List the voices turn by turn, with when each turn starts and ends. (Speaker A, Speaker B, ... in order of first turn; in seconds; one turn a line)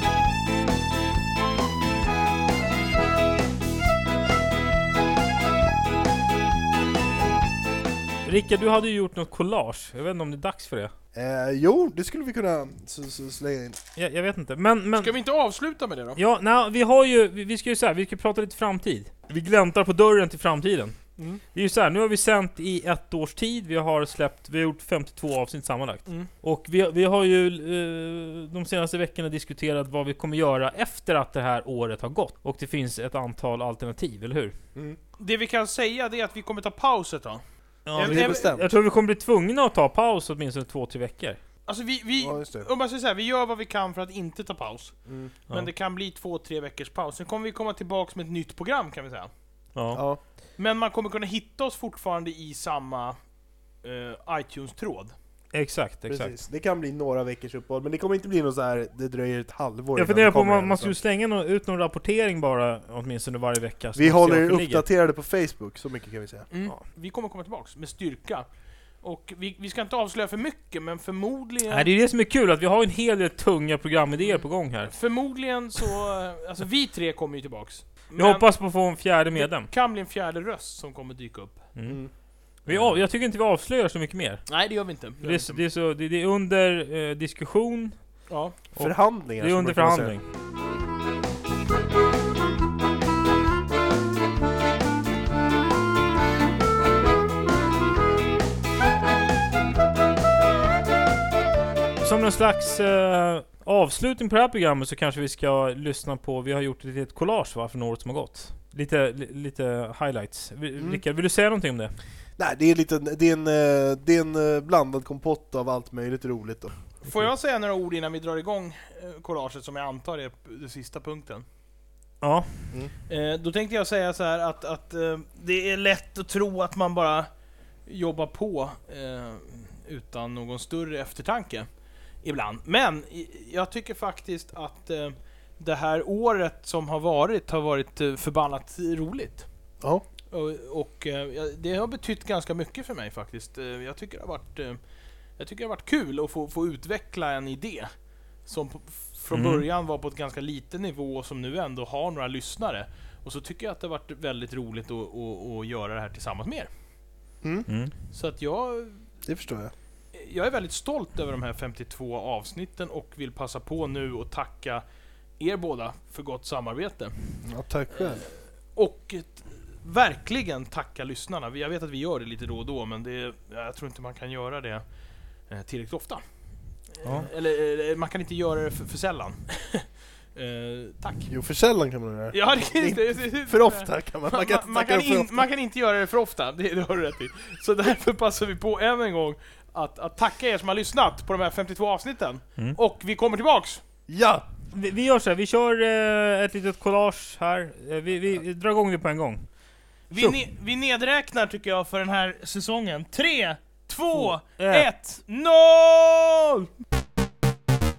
Speaker A: 8.2-10.9
Speaker B: 11.1-13.8
Speaker A: 13.9-15.1
Speaker C: 15.0-16.2
Speaker A: 16.1-21.0
Speaker A: 21.5-34.5
Speaker C: 35.2-37.4
Speaker A: 37.9-41.4
Speaker C: 38.0-38.5
Speaker B: 38.0-38.7
Speaker C: 41.6-45.0
Speaker B: 42.2-42.7
Speaker B: 45.1-45.3
Speaker C: 45.5-49.3
Speaker A: 49.7-50.0
Speaker B: 49.9-50.2
Speaker C: 50.6-53.2
Speaker C: 53.8-55.1
Speaker A: 55.5-56.4
Speaker B: 56.1-61.0
Speaker A: 60.0-64.8
Speaker B: 64.0-66.5
Speaker C: 66.5-68.4
Speaker C: 69.0-71.9
Speaker A: 71.7-74.9
Speaker C: 74.3-78.5
Speaker A: 78.2-79.7
Speaker C: 79.3-81.7
Speaker A: 81.8-82.0
Speaker B: 81.8-82.1
Speaker A: 82.6-84.6
Speaker C: 84.5-85.6
Speaker A: 85.2-88.2
Speaker C: 88.3-88.5
Speaker A: 88.7-90.2
Speaker B: 88.8-90.2
Speaker A: 102.0-111.9
Speaker B: 110.8-111.0
Speaker B: 112.4-116.8
Speaker C: 117.0-121.4
Speaker A: 122.2-122.7
Speaker C: 123.1-127.3
Speaker C: 127.9-131.7
Speaker C: 132.2-139.5
Speaker C: 140.3-144.8
Speaker C: 145.4-147.9
Speaker C: 148.4-156.7
Speaker A: 149.3-149.6
Speaker B: 157.4-157.7
Speaker A: 157.7-157.9
Speaker C: 158.1-159.0
Speaker B: 159.2-159.7
Speaker C: 160.1-164.8
Speaker C: 165.4-167.1
Speaker B: 167.4-168.3
Speaker C: 167.9-174.8
Speaker C: 175.5-176.2
Speaker C: 176.9-181.3
Speaker B: 181.3-185.4
Speaker C: 182.3-193.8
Speaker B: 194.1-194.4
Speaker A: 194.7-199.4
Speaker C: 200.1-206.7
Speaker A: 204.1-204.9